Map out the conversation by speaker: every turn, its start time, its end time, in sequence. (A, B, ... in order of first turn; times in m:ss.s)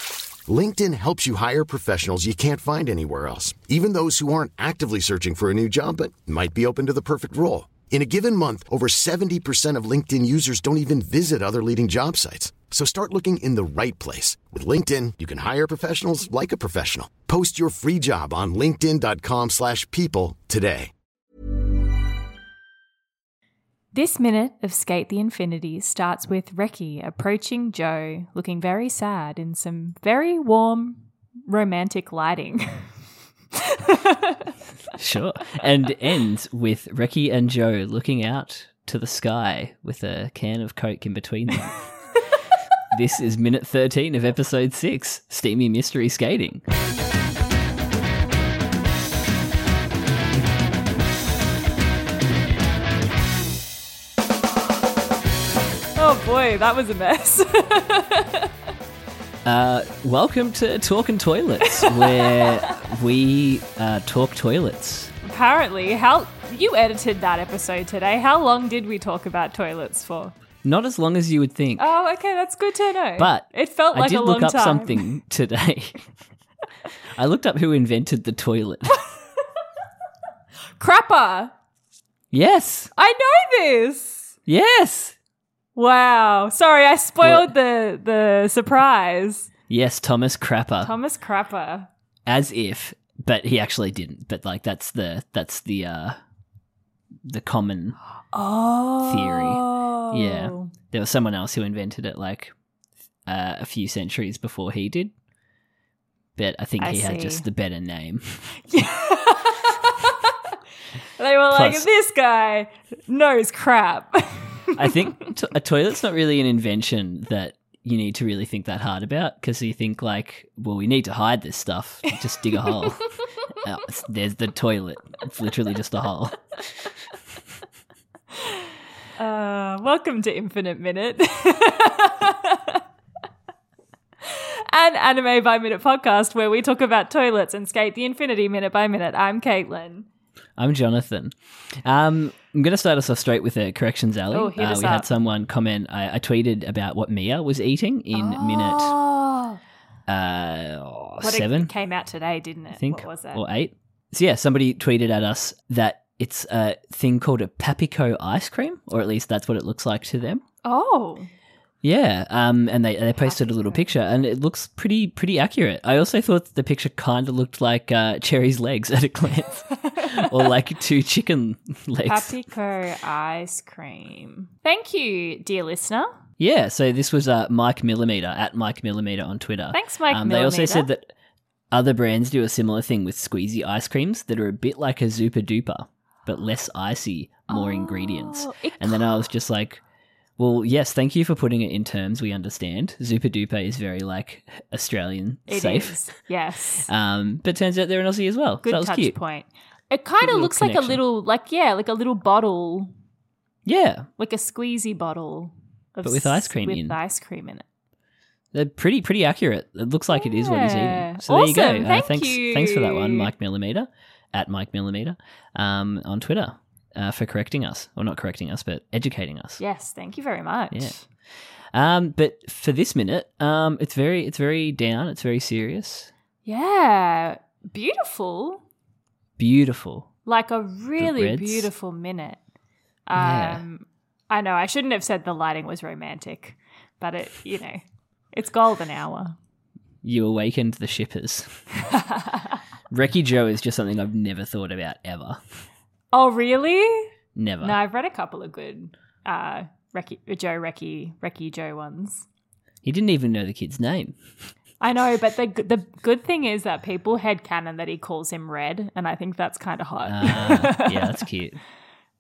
0:00.5-0:20.9 A
0:23.9-0:32.9 B
0:33.5-0:34.5 B
0:35.0-0:41.8 C
0:42.9-0:46.6 C
0:56.0-0:58.5 B
0:59.4-1:05.1 C
1:01.7-1:02.7 B
1:05.2-1:10.4 B
1:10.6-1:11.9 C
1:11.8-1:15.1 B
1:13.2-1:16.0 C
1:17.2-1:19.0 C
1:20.8-1:21.5 B
1:22.3-1:22.9 C
1:23.0-1:24.4 B
1:24.5-1:25.2 C
1:25.8-1:29.5 B
1:27.2-1:27.5 C
1:29.7-1:30.9 C
1:30.8-1:31.9 B
1:32.3-1:36.2 C
1:37.3-1:38.0 C
1:38.3-1:40.7 B
1:39.0-1:42.5 C
1:43.3-1:45.1 C
1:46.4-1:48.6 C
1:46.8-1:47.4 B
1:48.6-1:50.3 B
1:51.2-1:55.1 B
1:51.5-1:51.9 C
1:54.8-2:06.5 C
2:09.2-2:12.8 B
2:14.2-2:20.1 B
2:20.6-2:28.9 C
2:24.3-2:25.1 B
2:28.1-2:29.6 B
2:30.1-2:31.7 C
2:31.2-2:33.4 B
2:32.7-2:40.4 C
2:40.6-2:41.3 B
2:41.8-2:52.4 C
2:43.2-2:43.8 B
2:49.9-2:50.2 B
2:52.0-2:56.1 B
2:56.4-3:01.1 C
2:59.7-3:00.9 B
3:01.7-3:09.8 C
3:07.5-3:09.2 B
3:10.4-3:16.0 C
3:15.5-3:16.9 B
3:16.9-3:19.2 C
3:18.6-3:22.9 B
3:20.2-3:21.0 C
3:23.7-3:24.1 C
3:24.2-3:27.6 B
3:26.0-3:27.0 C
3:28.5-3:39.6 C
3:30.1-3:33.3 B
3:39.6-3:41.0 B
3:41.7-3:46.1 C
3:46.4-3:48.6 B
3:49.4-3:50.1 C
3:50.3-3:52.4 B
3:51.0-3:51.7 C
3:53.1-3:57.8 B
3:53.2-3:53.6 C
3:58.3-3:59.4 B
4:00.0-4:01.6 C
4:01.9-4:02.6 B
4:02.9-4:05.4 C
4:06.1-4:07.1 B
4:07.4-4:07.8 C
4:07.6-4:12.3 B
4:12.8-4:14.2 C
4:14.8-4:21.1 B
4:20.0-4:21.6 C